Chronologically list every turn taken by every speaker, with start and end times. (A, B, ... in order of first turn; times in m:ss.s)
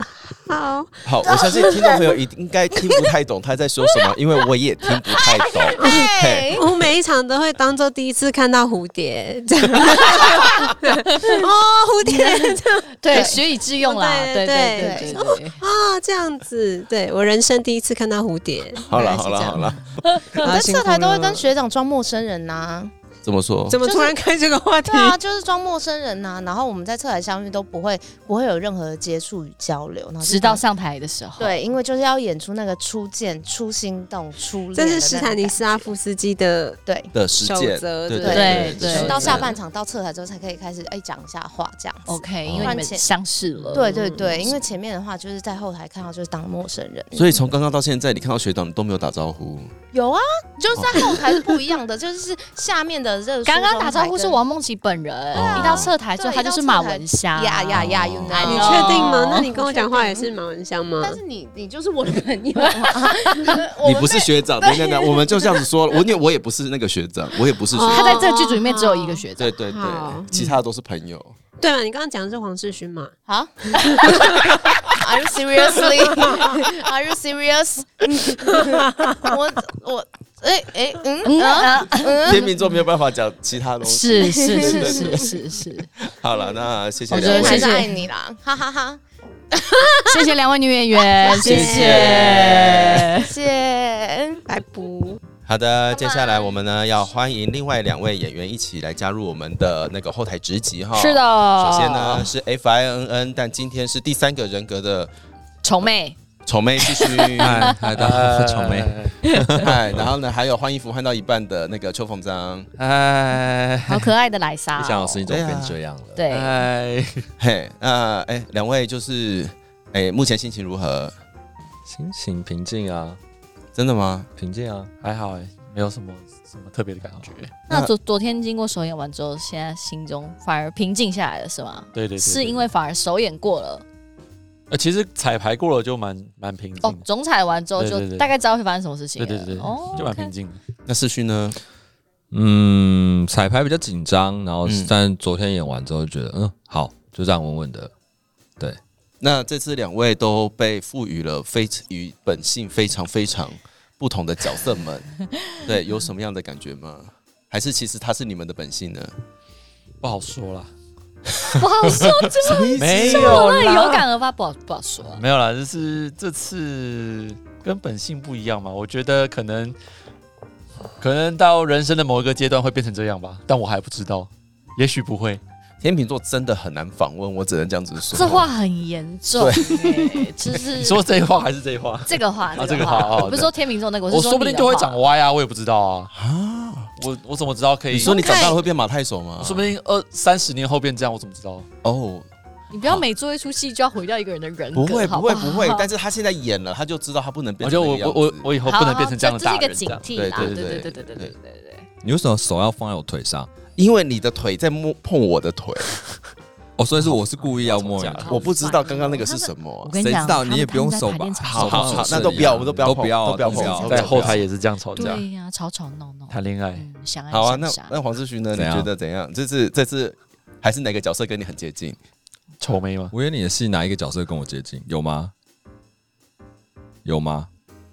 0:00.5-0:02.0 A
0:01.0-0:06.6 B
0:05.8-0:06.6 C
0:06.5-0:18.8 A
0:12.1-0:15.6 D
0:13.1-0:13.4 C
0:14.7-0:15.2 C
0:18.8-0:21.3 B
0:18.9-0:20.3 D
0:20.4-0:22.9 C
0:23.2-0:23.8 B
0:23.7-0:25.2 A
0:23.8-0:24.2 C
0:24.9-0:30.6 C
0:30.2-0:31.6 D
0:31.4-0:35.9 C
0:34.7-0:36.8 A
0:36.8-0:37.1 C
0:37.1-0:39.5 B
0:37.4-0:39.6 A
0:38.2-0:43.1 C
0:38.2-0:39.4 D
0:42.1-0:43.9 D
0:43.7-0:47.5 C
0:43.7-0:44.5 A
0:47.1-0:49.7 B
0:49.9-0:54.4 C
0:50.8-0:51.1 B
0:53.4-0:59.5 D
0:55.3-0:55.9 B
0:55.4-1:00.3 C
0:58.1-0:58.4 B
0:58.3-1:01.2 A
1:01.0-1:05.6 C
1:02.8-1:03.6 D
1:03.8-1:08.2 B
1:07.7-1:10.3 A
1:07.9-1:09.6 D
1:09.4-1:11.4 B
1:11.6-1:13.1 A
1:13.3-1:14.4 C
1:13.8-1:14.3 A
1:15.0-1:22.5 C
1:21.2-1:22.3 D
1:22.2-1:25.4 B
1:23.8-1:25.9 D
1:24.2-1:25.1 C
1:26.0-1:27.8 B
1:27.1-1:27.9 D
1:27.1-1:29.0 C
1:29.6-1:29.9 C
1:30.1-1:33.3 D
1:31.2-1:34.4 C
1:31.4-1:33.1 B
1:34.5-1:35.2 A
1:35.4-1:45.1 B
1:40.9-1:42.3 D
1:45.6-1:46.2 D
1:46.4-1:47.6 B
1:46.8-1:47.7 D
1:47.5-1:49.2 E
1:47.5-1:49.7 F
1:49.2-1:49.6 D
1:49.6-1:52.7 B
1:52.8-1:54.1 E
1:53.8-1:55.3 D
1:54.8-1:56.2 F
1:55.3-1:55.8 B
1:56.1-1:56.5 D
1:56.3-1:57.3 E
1:57.4-2:01.1 B
2:01.8-2:03.2 F
2:03.7-2:04.3 B
2:04.3-2:04.9 F
2:05.0-2:07.6 E
2:07.7-2:13.8 D
2:11.9-2:12.7 E
2:14.7-2:17.0 E
2:16.8-2:20.3 D
2:17.8-2:18.3 E
2:19.2-2:20.6 E
2:20.8-2:21.6 B
2:22.3-2:27.9 F
2:24.6-2:24.9 B
2:29.2-2:35.1 B
2:35.6-2:39.1 B
2:40.0-2:40.7 E
2:41.5-2:45.2 D
2:42.4-2:43.5 B
2:42.7-2:44.0 E
2:45.1-2:49.8 E
2:51.0-2:55.4 E
2:55.8-2:58.5 B
2:58.1-3:01.0 D
2:59.4-3:00.1 B
3:00.7-3:03.5 E
3:02.0-3:05.0 D
3:04.1-3:06.1 E
3:06.1-3:06.9 B
3:07.0-3:08.6 E
3:07.9-3:09.7 B
3:08.0-3:08.6 D
3:09.4-3:11.7 E
3:11.8-3:12.3 B
3:12.7-3:15.9 D
3:14.7-3:18.5 B
3:17.6-3:20.8 E
3:18.6-3:21.8 D
3:20.1-3:21.3 B
3:22.0-3:23.5 F
3:23.8-3:26.0 B
3:26.8-3:28.3 F
3:27.0-3:28.4 E
3:28.0-3:32.5 D
3:28.3-3:30.0 B
3:30.0-3:34.4 F
3:31.4-3:34.4 B
3:33.4-3:35.2 E
3:34.9-3:37.9 D
3:36.3-3:36.9 E
3:37.3-3:42.0 B
3:38.5-3:38.9 F
3:42.6-3:43.1 E
3:43.1-3:45.3 F
3:47.0-3:47.5 F